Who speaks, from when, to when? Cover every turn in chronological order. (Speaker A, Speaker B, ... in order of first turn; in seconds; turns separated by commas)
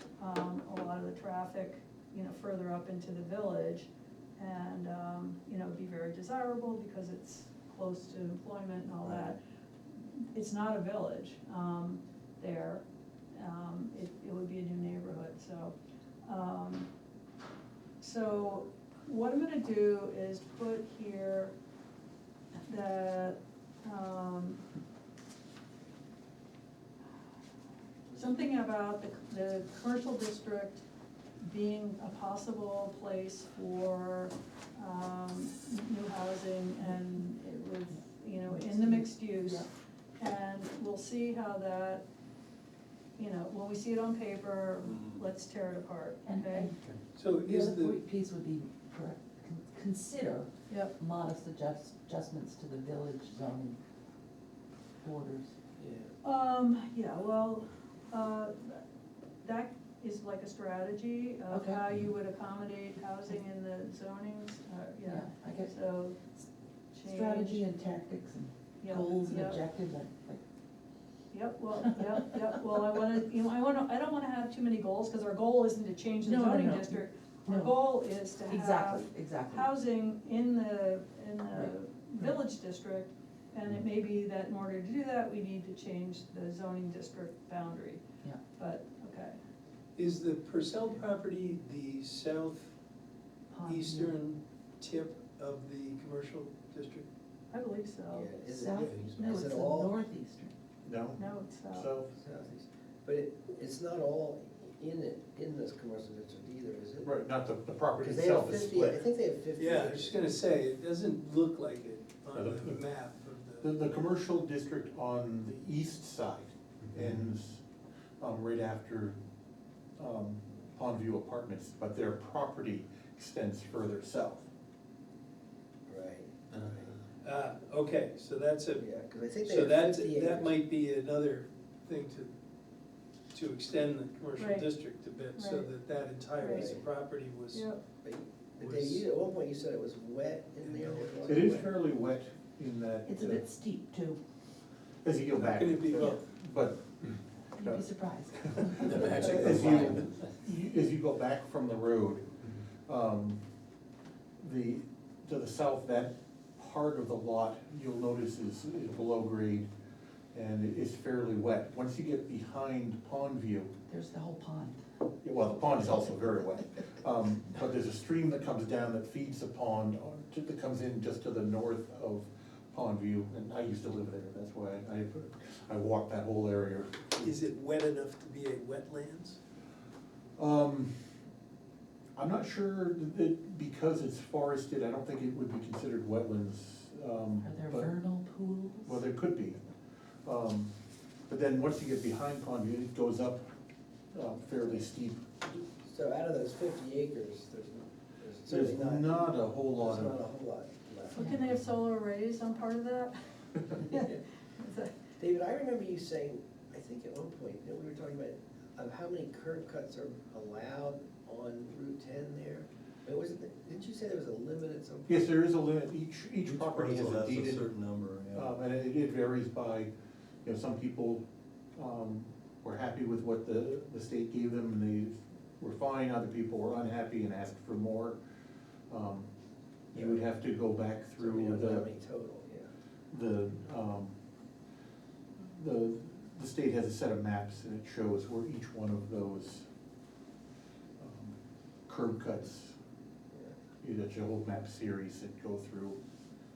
Speaker A: 0.2-9.4, Speaker B: 9.1-9.3, Speaker A: 10.0-15.7, Speaker A: 16.2-16.9, Speaker A: 18.0-21.5, Speaker A: 22.6-24.6, Speaker A: 28.1-30.8, Speaker A: 31.4-39.6, Speaker C: 38.4-39.6, Speaker A: 40.2-42.0, Speaker A: 43.2-46.7, Speaker C: 46.2-46.7, Speaker D: 47.1-48.0, Speaker C: 47.4-53.8, Speaker A: 50.7-50.9, Speaker C: 55.0-55.5, Speaker E: 55.8-56.1, Speaker A: 56.2-58.8, Speaker A: 59.4-66.2, Speaker C: 61.5-61.8, Speaker C: 65.0-65.7, Speaker A: 66.9-67.7, Speaker C: 67.0-70.4, Speaker A: 68.8-69.6, Speaker A: 71.3-88.0, Speaker C: 71.8-72.3, Speaker C: 76.2-77.9, Speaker C: 78.4-79.7, Speaker A: 88.5-89.4, Speaker D: 90.0-92.7, Speaker C: 93.5-94.1, Speaker D: 93.6-97.1, Speaker A: 97.5-98.3, Speaker E: 98.1-100.0, Speaker C: 98.5-100.5, Speaker F: 100.8-102.1, Speaker A: 101.2-101.9, Speaker E: 102.1-107.2, Speaker F: 107.0-109.1, Speaker E: 108.0-110.3, Speaker D: 109.5-113.7, Speaker F: 112.3-112.8, Speaker F: 113.6-117.6, Speaker F: 118.2-119.2, Speaker F: 120.0-124.5, Speaker E: 125.9-127.0, Speaker D: 127.2-132.3, Speaker E: 128.8-130.5, Speaker D: 133.3-137.7, Speaker A: 134.4-134.8, Speaker A: 135.3-135.7, Speaker A: 136.4-136.7, Speaker E: 136.5-136.8, Speaker A: 137.5-137.8, Speaker E: 138.0-141.7, Speaker D: 138.6-139.0, Speaker D: 140.6-141.6, Speaker F: 141.2-143.4, Speaker C: 143.1-144.2, Speaker F: 145.0-147.8, Speaker D: 145.4-146.2, Speaker C: 147.6-149.1, Speaker F: 148.4-153.4, Speaker B: 148.8-150.1, Speaker F: 154.4-159.7, Speaker F: 160.3-163.7, Speaker C: 163.9-164.8, Speaker F: 165.2-177.3, Speaker D: 177.2-179.4, Speaker F: 180.4-180.9, Speaker F: 182.2-187.9, Speaker C: 187.4-189.0, Speaker F: 188.8-189.6, Speaker F: 190.2-190.7, Speaker F: 191.3-193.5, Speaker F: 194.1-195.4, Speaker E: 195.7-201.4, Speaker F: 198.5-200.2, Speaker A: 201.1-204.9, Speaker E: 203.9-204.2, Speaker E: 205.2-215.3, Speaker F: 215.1-217.7, Speaker B: 216.4-218.5, Speaker F: 218.3-219.9, Speaker F: 220.4-221.2, Speaker F: 221.8-228.2, Speaker F: 228.9-229.3, Speaker F: 229.9-231.9, Speaker E: 229.9-230.3, Speaker E: 231.2-232.7, Speaker F: 233.1-234.1, Speaker F: 235.4-239.7, Speaker F: 241.0-241.3, Speaker F: 241.9-242.7, Speaker F: 243.8-246.0